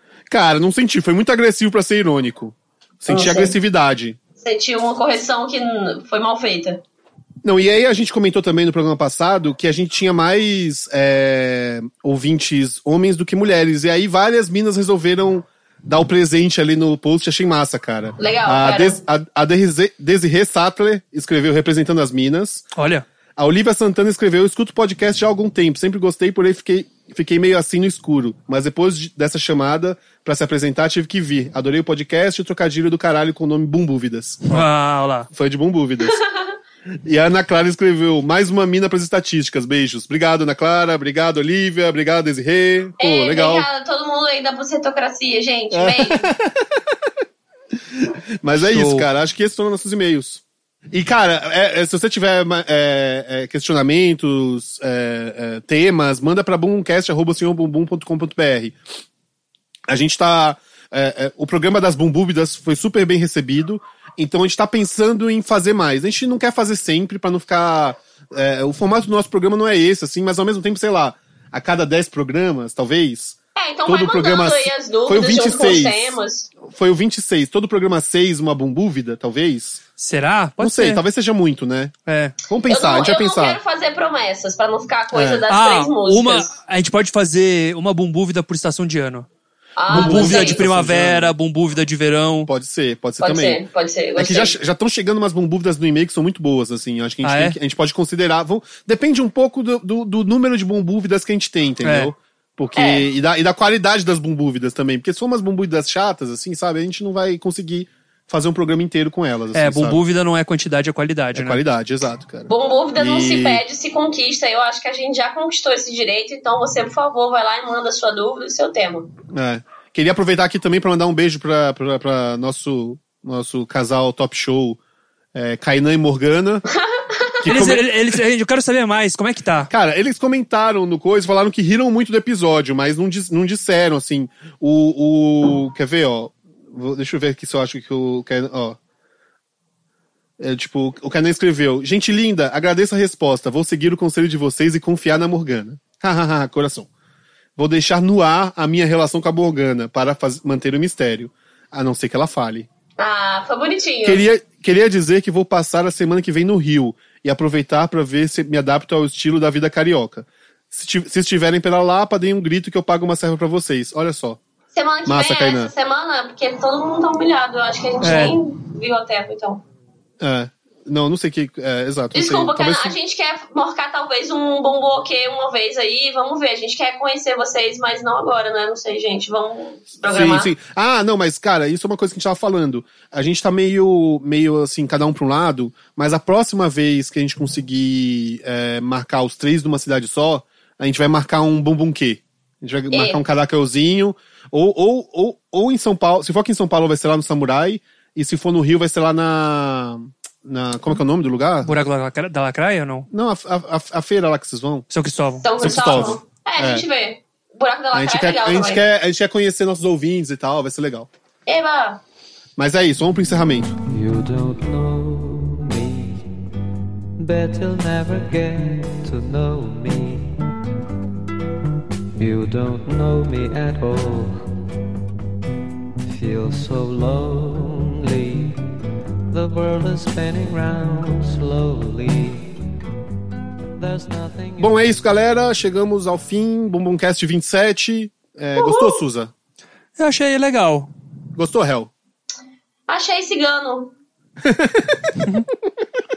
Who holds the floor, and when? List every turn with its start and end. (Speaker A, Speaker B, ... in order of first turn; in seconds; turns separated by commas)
Speaker A: 0.3-4.2, Speaker B: 3.1-3.5, Speaker B: 4.4-6.8, Speaker A: 7.4-22.7, Speaker B: 18.2-19.0, Speaker C: 22.8-23.1, Speaker A: 23.4-34.7, Speaker C: 34.5-35.3, Speaker A: 35.3-36.2, Speaker B: 36.1-36.5, Speaker A: 37.0-43.7, Speaker B: 43.0-46.3, Speaker A: 45.7-46.7, Speaker A: 48.0-58.8, Speaker C: 48.5-49.1, Speaker A: 59.9-79.8, Speaker B: 73.6-76.5, Speaker C: 80.0-81.0, Speaker A: 80.6-81.9, Speaker C: 82.1-82.3, Speaker A: 82.5-83.6, Speaker B: 82.7-86.5, Speaker A: 85.1-85.4, Speaker C: 85.5-89.3, Speaker B: 89.8-90.6, Speaker A: 89.9-91.3, Speaker C: 89.9-92.5, Speaker A: 92.5-93.6, Speaker B: 93.2-94.6, Speaker A: 94.2-110.0, Speaker C: 97.2-97.6, Speaker C: 101.8-102.1, Speaker B: 102.8-103.1, Speaker C: 109.5-111.6, Speaker A: 111.3-113.6, Speaker B: 112.5-119.1, Speaker A: 119.3-124.8, Speaker A: 125.3-126.6, Speaker B: 126.7-127.4, Speaker A: 127.4-127.9, Speaker C: 127.5-129.7, Speaker A: 129.7-138.8, Speaker A: 140.4-146.9, Speaker A: 147.6-152.7, Speaker B: 153.0-154.3, Speaker A: 154.0-164.4, Speaker B: 164.7-169.6, Speaker A: 165.1-165.7, Speaker C: 168.0-168.4, Speaker A: 170.2-173.0, Speaker B: 172.1-180.5, Speaker A: 180.0-201.7, Speaker B: 192.9-193.2, Speaker C: 201.6-203.1, Speaker A: 203.1-204.8, Speaker C: 204.9-206.2, Speaker B: 205.4-208.8, Speaker A: 205.6-206.9, Speaker A: 207.9-211.1, Speaker B: 211.5-212.0, Speaker A: 212.6-213.7, Speaker D: 213.9-216.4, Speaker D: 217.2-220.5, Speaker D: 222.2-224.6, Speaker D: 226.1-228.7, Speaker D: 229.3-232.7, Speaker D: 233.8-234.8, Speaker A: 234.6-239.3, Speaker B: 238.6-239.0, Speaker C: 240.0-240.9, Speaker A: 241.3-241.9, Speaker B: 242.9-243.9, Speaker A: 244.4-245.2